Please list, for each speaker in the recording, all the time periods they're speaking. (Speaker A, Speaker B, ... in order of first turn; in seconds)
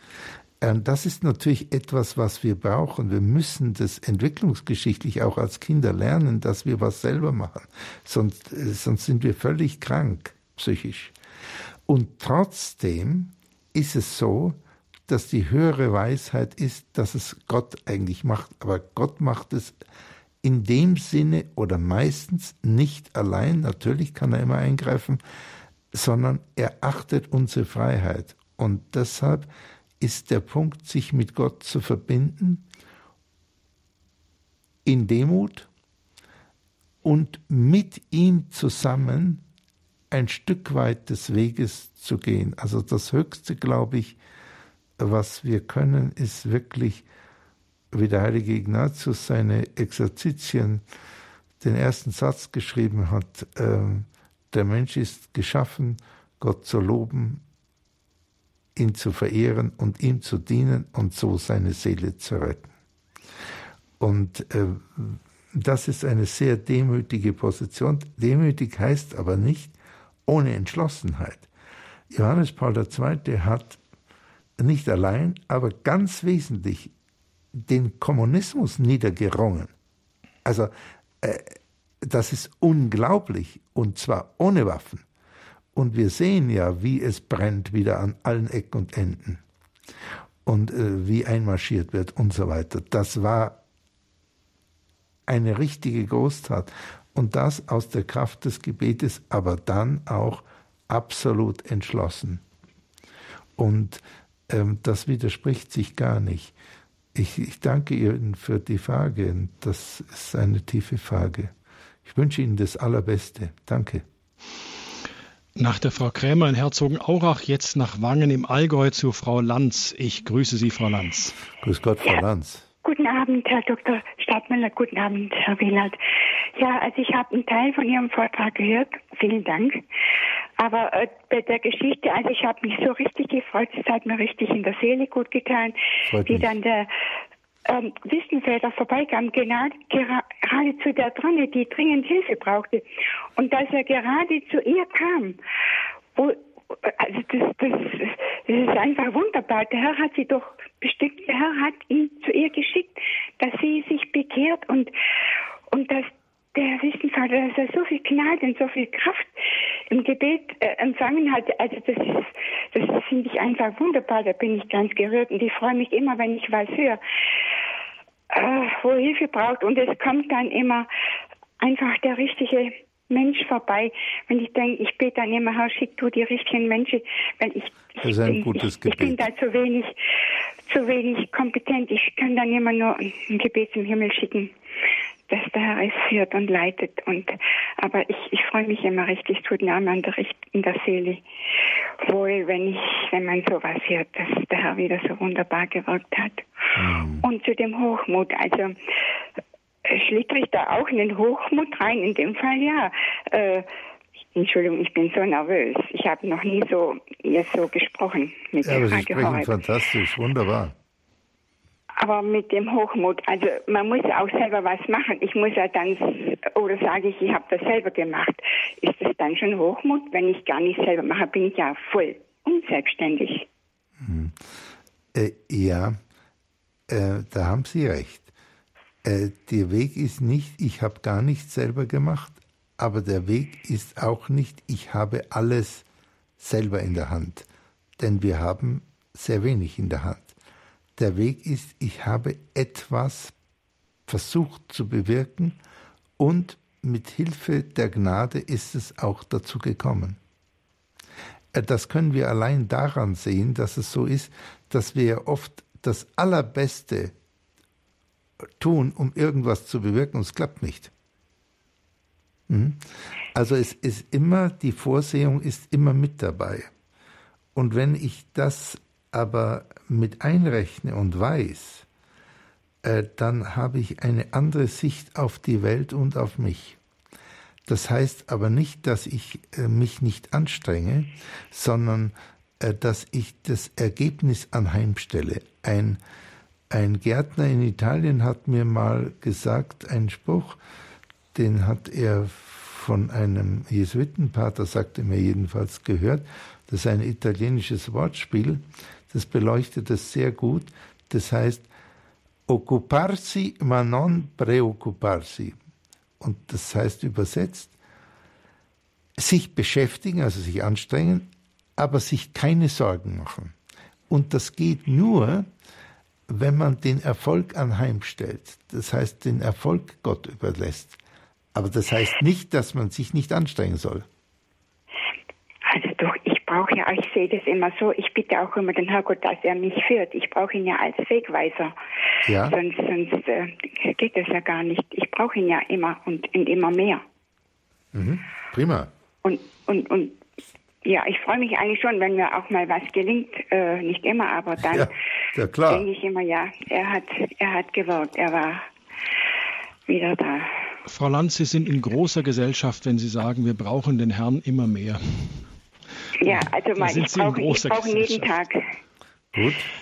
Speaker A: 0.6-11.1, 11.9-14.6, 15.1-19.8, 20.4-25.2, 25.9-29.5, 30.0-32.6, 34.8-35.7, 37.0-39.4, 40.1-44.2, 45.0-47.0, 47.9-50.8, 51.6-57.4, 58.8-62.7, 64.0-69.7, 70.2-71.5, 72.1-73.8, 74.6-76.9, 77.5-79.7, 80.4-85.0, 85.7-89.4, 90.4-93.6, 95.3-102.4, 103.6-106.5, 107.1-111.5, 112.0-114.0, 121.6-122.7, 136.1-136.5, 178.0-179.3, 196.8-197.2, 208.6-210.7, 224.0-224.6, 225.1-226.0, 226.9-228.3, 229.0-235.8, 236.4-237.5, 238.0-240.3, 241.0-243.3, 244.1-245.6, 246.2-250.2, 251.5-257.1, 258.6-260.9, 262.5-266.7, 267.5-271.9, 272.8-276.8, 277.6-286.0, 286.7-290.6, 291.3-301.7, 302.5-305.6, 306.2-307.7, 309.2-313.6, 314.1-315.5, 316.3-321.0, 321.5-324.1, 332.2-332.6, 337.9-338.9, 344.6-345.9, 359.3-359.7
Speaker B: 115.5-121.3, 350.9-355.4, 356.3-358.4
Speaker C: 122.8-126.0, 126.5-129.8, 130.6-136.9, 137.6-142.8, 143.3-145.4, 146.2-154.9, 155.7-159.4, 159.9-167.0, 168.3-170.9, 171.6-179.9, 180.7-184.5, 185.3-191.2, 192.0-196.5, 197.2-198.8, 199.8-203.7, 204.3-209.5, 212.0-223.5, 325.7-331.8, 332.4-337.0, 339.2-340.2, 340.8-344.9, 345.6-348.6, 349.9-350.7, 356.2-358.6